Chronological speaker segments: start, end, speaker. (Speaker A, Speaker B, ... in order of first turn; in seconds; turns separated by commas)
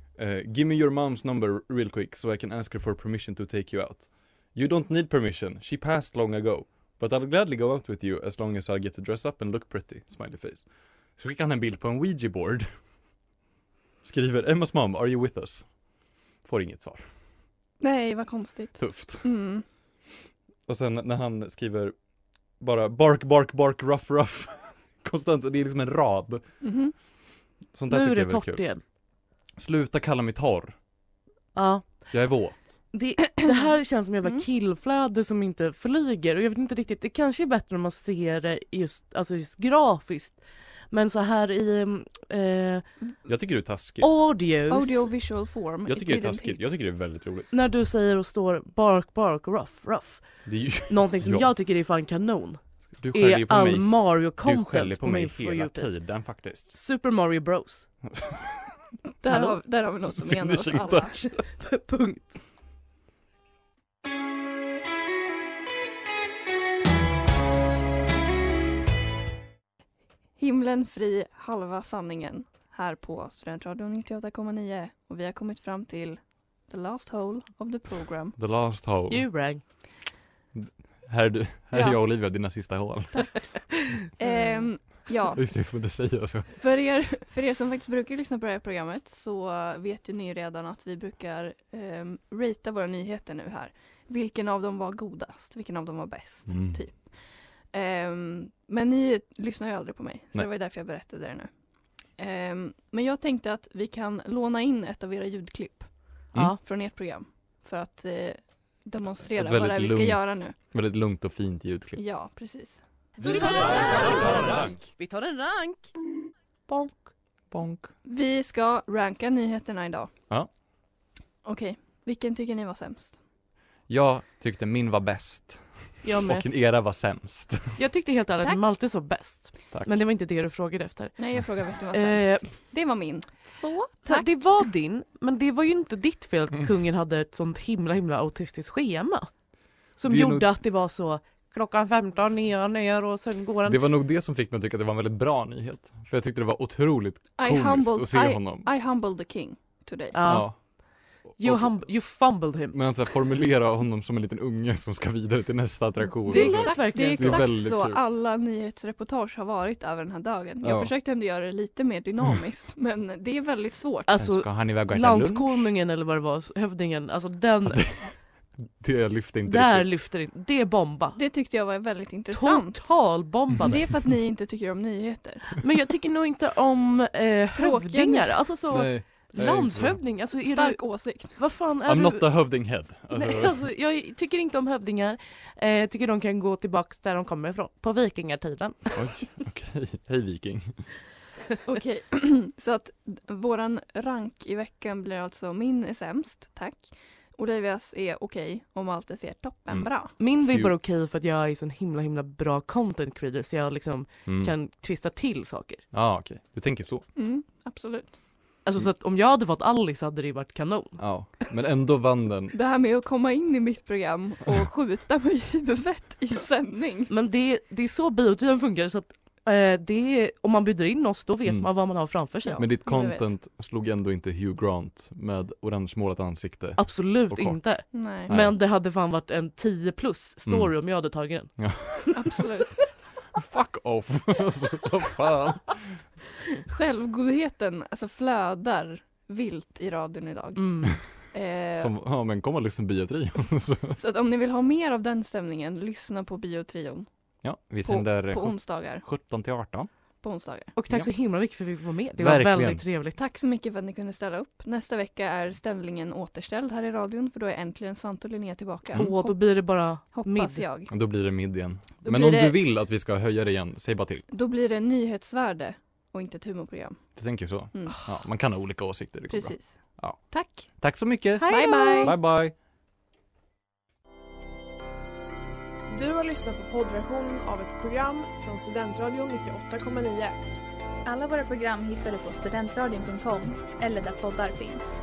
Speaker A: 0.1-10.6, Speaker A: 11.2-12.7, Speaker A: 14.0-15.7, Speaker A: 16.4-17.0, Speaker B: 17.8-19.6, Speaker A: 18.8-19.3, Speaker A: 20.6-21.9, Speaker A: 22.6-26.4, Speaker B: 26.6-26.9, Speaker A: 27.7-28.6, Speaker C: 27.9-28.8, Speaker A: 29.6-30.8, Speaker C: 31.5-32.1, Speaker A: 32.1-32.9, Speaker C: 32.9-40.4, Speaker C: 40.9-42.8, Speaker A: 43.3-44.1, Speaker C: 44.0-45.1, Speaker B: 44.7-46.6, Speaker A: 45.9-47.5, Speaker C: 47.5-55.9, Speaker A: 50.5-51.5, Speaker A: 53.0-56.7, Speaker C: 56.7-57.9, Speaker A: 58.1-58.8, Speaker B: 59.2-61.3, Speaker C: 59.3-59.5, Speaker A: 60.1-61.3, Speaker C: 61.5-62.4, Speaker B: 70.4-78.3, Speaker A: 78.3-79.3, Speaker C: 79.1-79.6, Speaker A: 80.5-83.3, Speaker B: 81.7-82.0, Speaker B: 84.2-85.4, Speaker A: 85.3-86.5, Speaker B: 86.5-97.2, Speaker A: 96.5-96.8, Speaker B: 97.7-101.5, Speaker B: 102.2-110.5, Speaker A: 109.3-112.0, Speaker B: 111.9-112.8, Speaker A: 113.2-114.9, Speaker C: 113.2-115.9, Speaker C: 116.7-117.1, Speaker A: 117.5-117.9, Speaker B: 118.0-120.1, Speaker B: 121.4-123.2, Speaker A: 123.9-127.8, Speaker C: 126.0-126.5, Speaker C: 127.8-132.5, Speaker A: 129.7-130.0, Speaker B: 131.2-134.3, Speaker C: 134.0-139.3, Speaker C: 140.0-143.8, Speaker A: 140.0-140.4, Speaker A: 143.7-148.7, Speaker B: 147.4-150.2, Speaker C: 150.1-150.5, Speaker A: 150.2-150.6, Speaker A: 151.3-151.9, Speaker C: 151.4-152.8, Speaker A: 152.7-158.0, Speaker C: 156.3-157.5, Speaker B: 156.3-164.1, Speaker A: 160.6-160.9, Speaker C: 164.1-167.9, Speaker A: 164.2-165.7, Speaker A: 167.7-168.1, Speaker A: 168.8-169.9, Speaker C: 169.5-171.2, Speaker B: 171.1-172.9, Speaker C: 172.3-173.9, Speaker B: 173.6-175.5, Speaker C: 175.6-182.3, Speaker B: 177.5-178.3, Speaker A: 178.7-180.0, Speaker B: 180.4-181.4, Speaker A: 181.8-183.6, Speaker C: 183.1-189.1, Speaker A: 188.9-190.8, Speaker B: 191.7-200.1, Speaker C: 200.2-205.8, Speaker A: 200.5-200.7, Speaker A: 204.2-204.5, Speaker A: 205.9-207.1, Speaker B: 207.2-208.2, Speaker C: 208.6-211.0, Speaker A: 211.0-212.5, Speaker B: 212.5-217.1, Speaker C: 217.1-222.6, Speaker B: 222.4-223.3, Speaker A: 222.6-227.6, Speaker C: 226.8-232.1, Speaker B: 227.9-228.3, Speaker A: 228.3-228.5, Speaker A: 230.5-230.7, Speaker A: 231.6-232.1, Speaker B: 232.1-232.8, Speaker A: 233.3-235.8, Speaker B: 236.7-241.9, Speaker C: 240.6-240.9, Speaker A: 241.8-244.0, Speaker B: 243.9-247.1, Speaker A: 247.4-249.9, Speaker B: 247.8-249.0, Speaker B: 250.2-250.7, Speaker C: 250.7-253.2, Speaker A: 252.2-252.8, Speaker B: 253.1-260.9, Speaker C: 258.9-260.6, Speaker A: 260.9-264.2, Speaker B: 262.0-262.6, Speaker B: 264.3-267.0, Speaker A: 267.1-270.2, Speaker B: 267.7-268.0, Speaker B: 269.3-270.7, Speaker A: 270.8-272.5, Speaker C: 271.4-272.1, Speaker B: 271.5-272.1, Speaker D: 275.9-280.4, Speaker E: 281.1-284.9